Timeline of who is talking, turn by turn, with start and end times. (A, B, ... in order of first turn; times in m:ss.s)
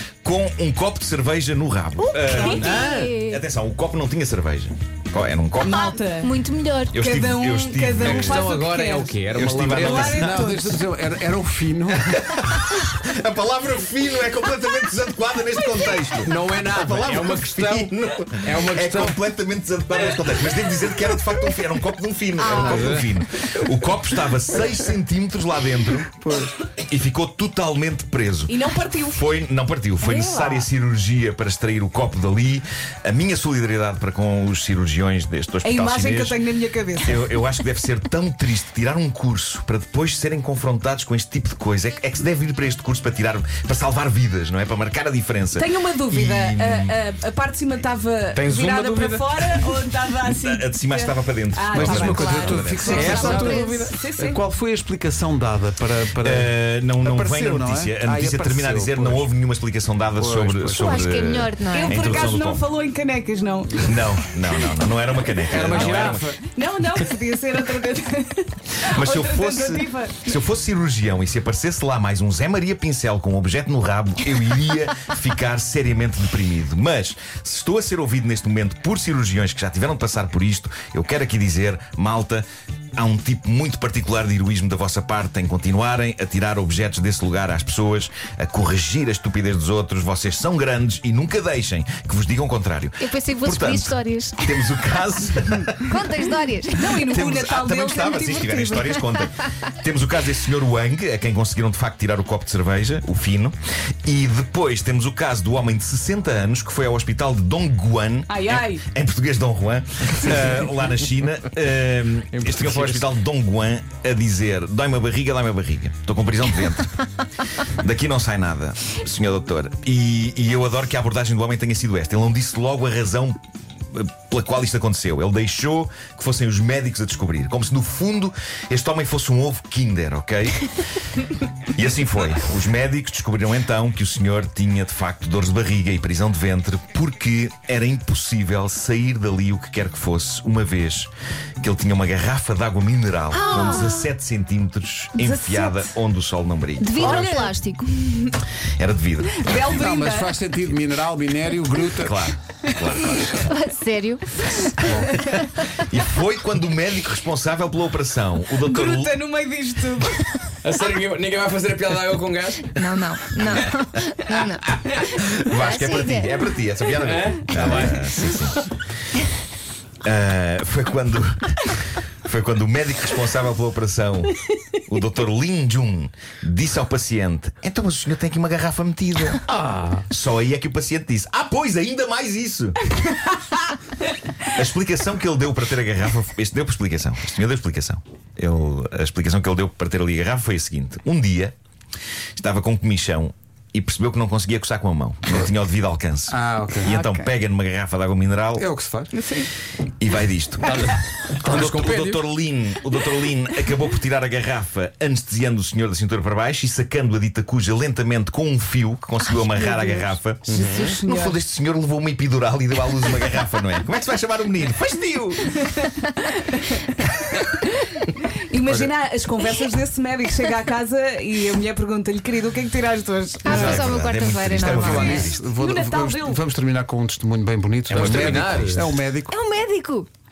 0:00.2-0:05.9 A
0:02.0-0:03.4 B
0:02.3-0:02.7 C
0:05.6-0:06.3 C
0:05.7-0:07.0 B
0:06.9-0:08.6 A
0:06.9-0:10.6 C
0:08.0-0:10.8 D
0:09.3-0:10.3 A
0:10.1-0:12.4 E
0:12.1-0:26.1 A
0:16.2-0:19.2 D
0:22.4-0:23.0 B
0:22.6-0:23.1 D
0:26.2-0:26.5 E
0:26.8-0:36.4 A
0:28.5-0:29.2 C
0:30.1-0:30.6 B
0:35.6-0:37.4 C
0:37.0-0:47.0 A
0:45.5-0:54.4 C
0:48.3-0:49.7 D
0:50.2-0:53.4 A
0:51.7-0:59.3 E
0:51.8-0:53.9 B
0:52.5-0:53.9 D
0:56.2-1:02.7 A
1:00.2-1:01.2 E
1:00.7-1:02.1 B
1:01.7-1:04.0 C
1:03.8-1:06.2 A
1:05.5-1:06.4 E
1:05.7-1:10.3 C
1:08.8-1:36.2 A
1:33.0-1:34.5 B
1:35.8-1:37.0 B
1:36.8-1:39.0 C
1:37.0-1:57.0 A
1:48.3-1:48.8 C
1:52.3-1:53.1 D
1:57.6-2:03.4 A
2:03.9-2:10.8 A
2:11.7-2:27.5 A
2:23.3-2:24.1 B
2:25.2-2:25.9 C
2:26.8-2:27.9 B
2:27.0-2:28.4 C
2:28.8-2:29.8 A
2:29.3-2:30.3 C
2:29.6-2:32.3 E
2:32.0-2:33.4 A
2:32.7-2:33.3 C
2:33.4-2:34.5 B
2:34.5-2:35.4 C
2:34.8-2:35.1 E
2:35.7-2:39.2 A
2:38.6-2:40.3 C
2:40.6-2:43.7 D
2:42.8-2:46.3 B
2:45.4-2:48.6 A
2:47.0-2:48.7 D
2:47.6-2:47.9 B
2:50.0-2:59.4 A
2:59.5-3:00.0 D
3:00.1-3:02.8 A
3:04.5-3:11.5 A
3:12.4-3:18.7 A
3:16.3-3:16.9 E
3:16.8-3:17.3 C
3:18.6-3:19.1 E
3:19.1-3:19.5 C
3:20.0-3:35.6 A
3:20.6-3:22.2 D
3:29.6-3:31.4 C
3:30.4-3:31.0 D
3:35.6-3:43.8 C
3:43.4-3:45.3 B
3:43.4-3:45.5 A
3:43.6-3:43.9 E
3:44.6-3:49.4 E
3:45.5-3:46.4 C
3:47.9-3:49.0 D
3:47.9-3:48.9 A
3:49.3-3:50.1 B